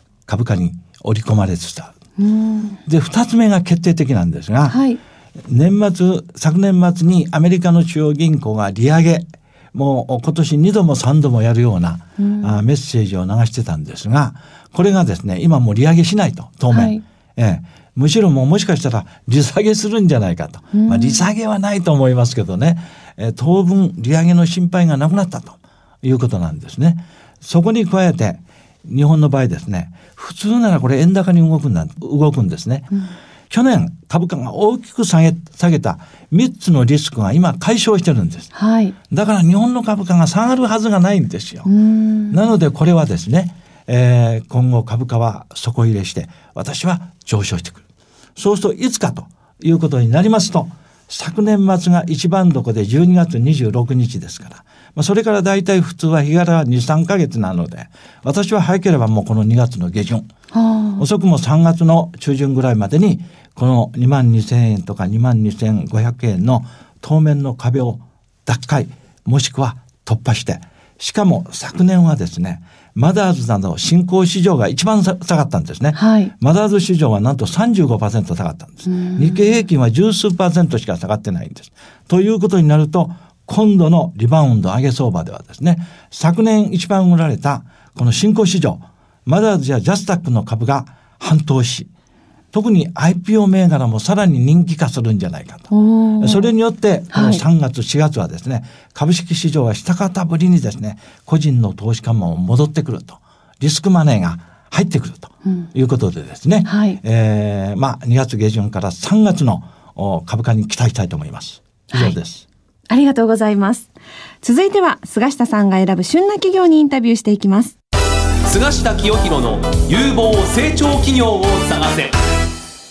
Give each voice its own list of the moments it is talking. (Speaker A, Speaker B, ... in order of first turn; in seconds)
Speaker A: 0.3-1.9, 2.9-4.8, 5.4-32.9, 33.5-38.5, 39.1-41.7, 42.3-47.8, 48.4-60.3, 61.0-91.9, 92.5-112.4
Speaker B: 2.2-2.8, 4.7-5.0, 12.2-12.5, 16.7-17.0, 20.7-21.2, 38.5-38.9, 41.7-42.4, 60.5-61.0, 76.0-76.3, 78.9-79.3, 95.7-96.5, 97.1-97.4, 106.7-107.0, 112.9-113.9, 114.4-117.7
Speaker C: 118.5-122.1